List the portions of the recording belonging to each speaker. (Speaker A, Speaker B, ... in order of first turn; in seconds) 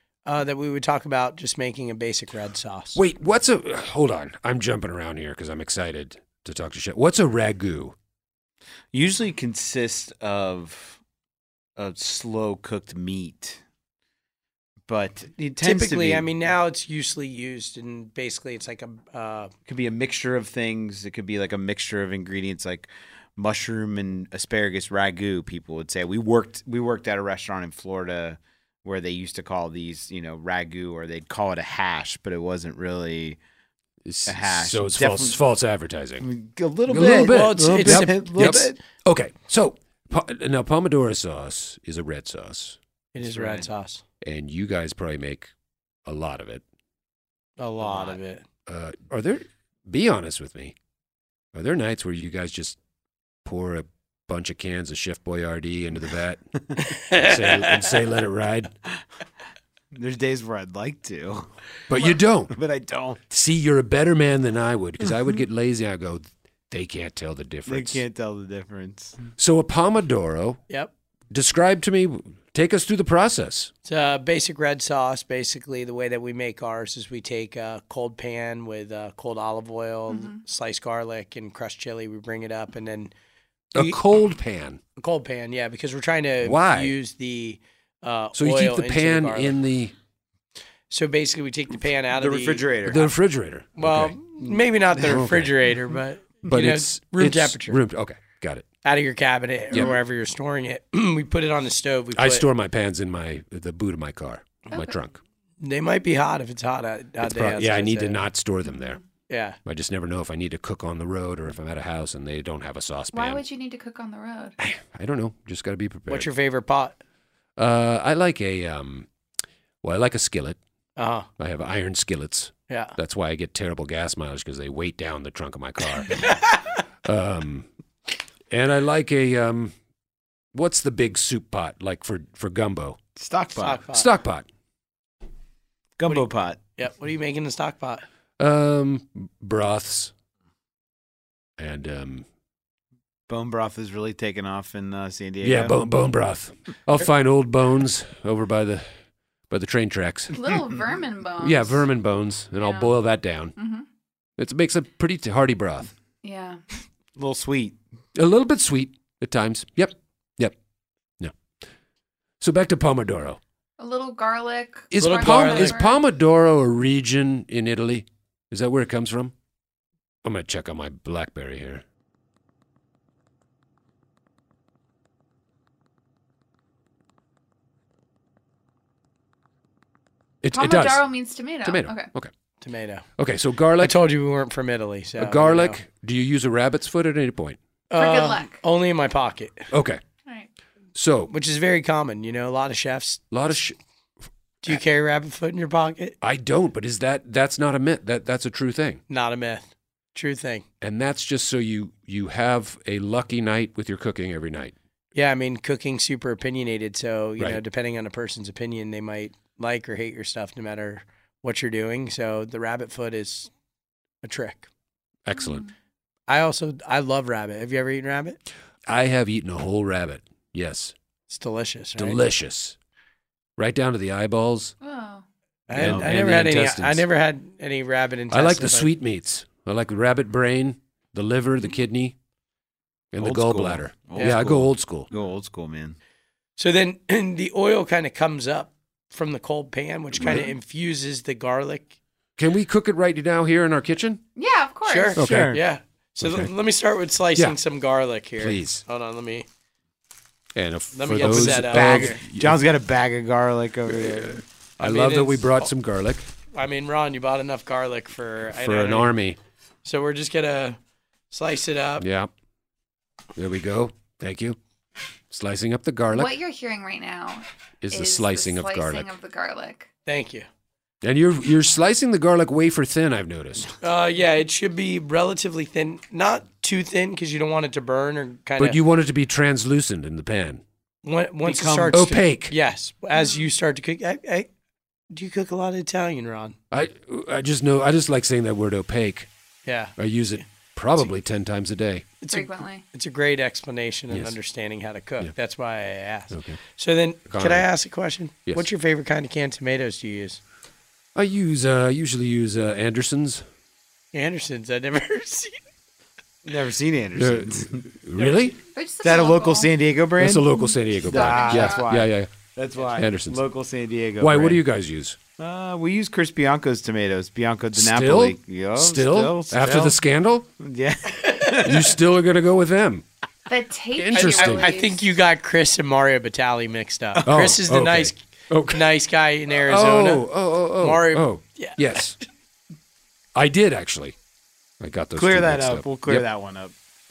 Speaker A: 0.2-3.0, 15.6-19.5, 36.9-38.7, 43.1-44.0, 47.6-48.4, 56.8-58.0, 73.8-83.1, 83.7-84.0, 85.0-89.6, 90.9-92.8, 93.8-97.8, 98.8-102.5, 105.6-108.2, 109.3-109.6, 116.1-117.0, 121.0-121.3, 122.7-123.0, 126.1-126.8, 133.5-134.1, 136.1-138.0, 165.0-165.8, 182.6-183.1, 183.8-185.8, 187.9-189.7, 191.3-193.2, 194.6-196.2, 199.1-200.6, 205.1-213.5, 214.2-214.7, 216.3-218.4, 221.3-222.2, 225.7-228.9, 234.1-234.5, 236.6-242.0, 244.8-249.5, 250.9-252.3, 254.8-255.7, 256.5-259.1, 259.8-260.8, 261.3-262.1, 270.1-270.5, 273.8-278.8, 281.0-284.5, 285.1-286.6, 289.6-290.4, 292.2-300.4, 304.1-305.6, 324.1-328.2, 328.7-330.3, 330.8-332.0
Speaker B: 2.9-8.0, 34.0-36.2, 36.9-42.8, 44.2-45.5, 46.0-46.6, 48.7-50.7, 51.5-52.8, 53.4-56.4, 57.1-58.7, 61.9-62.5, 63.3-68.0, 69.4-70.6, 71.3-73.7, 83.7-84.8, 86.4-86.9, 88.3-89.9, 92.8-94.2, 95.0-95.5, 96.5-98.7, 102.1-105.2, 107.2-109.0, 109.6-113.4, 114.6-116.3, 117.6-119.1, 119.8-120.6, 121.4-126.3, 127.0-127.7, 128.5-129.7, 130.5-133.0, 133.9-134.5, 138.4-140.1, 141.6-142.2, 145.4-148.9, 149.5-150.4, 151.4-153.5, 154.4-155.9, 158.1-160.5, 162.4-163.4, 164.9-169.3, 170.2-171.8, 180.4-182.3, 183.2-184.0, 185.2-187.6, 189.7-190.0, 190.9-191.3, 193.3-193.8, 196.2-199.0, 200.8-204.7, 215.2-215.7, 218.8-220.9, 221.9-222.8, 223.6-224.7, 225.7-227.1, 228.3-232.2, 233.1-235.1, 242.4-244.2, 245.2-245.6, 246.2-246.5, 248.4-248.8, 250.5-252.6, 254.8-256.3, 258.6-259.4, 262.0-262.3, 263.4-264.6, 265.3-266.4, 267.8-269.1, 271.0-273.7, 278.6-280.6, 281.9-282.5, 286.7-289.3, 289.9-292.1, 294.1-294.4, 296.3-296.6, 297.3-297.6, 301.1-303.4, 307.1-308.6, 310.2-312.3, 312.9-313.4, 314.2-315.2, 317.7-320.5, 321.6-323.0, 323.9-324.7, 327.2-328.9, 329.6-332.2, 333.3-334.1, 334.8-336.2
Speaker C: 8.9-11.0, 11.8-13.6, 14.9-16.3, 19.6-33.4, 34.3-35.4, 36.2-38.8, 43.2-43.6, 47.9-48.1, 59.9-61.5, 62.5-63.2, 67.7-69.2, 92.1-93.1, 94.4-95.3, 133.2-133.8, 136.0-136.6, 143.3-145.8, 157.2-157.8, 225.7-226.2, 233.2-236.0, 240.2-240.5, 245.2-245.6, 251.8-254.4, 281.4-282.1, 306.4-307.9, 309.0-314.6, 315.4-319.9, 320.6-321.9, 335.1-336.7
Speaker D: 80.1-80.4, 108.7-109.0, 113.1-114.6, 150.3-151.8, 152.6-153.0, 153.6-153.8, 156.2-156.6, 163.8-166.0, 180.5-182.1, 187.9-188.6, 215.3-215.7, 224.8-225.2, 244.3-245.2, 266.1-269.9, 283.1-283.5, 292.3-292.8, 308.7-309.7, 311.1-311.9, 323.5-325.0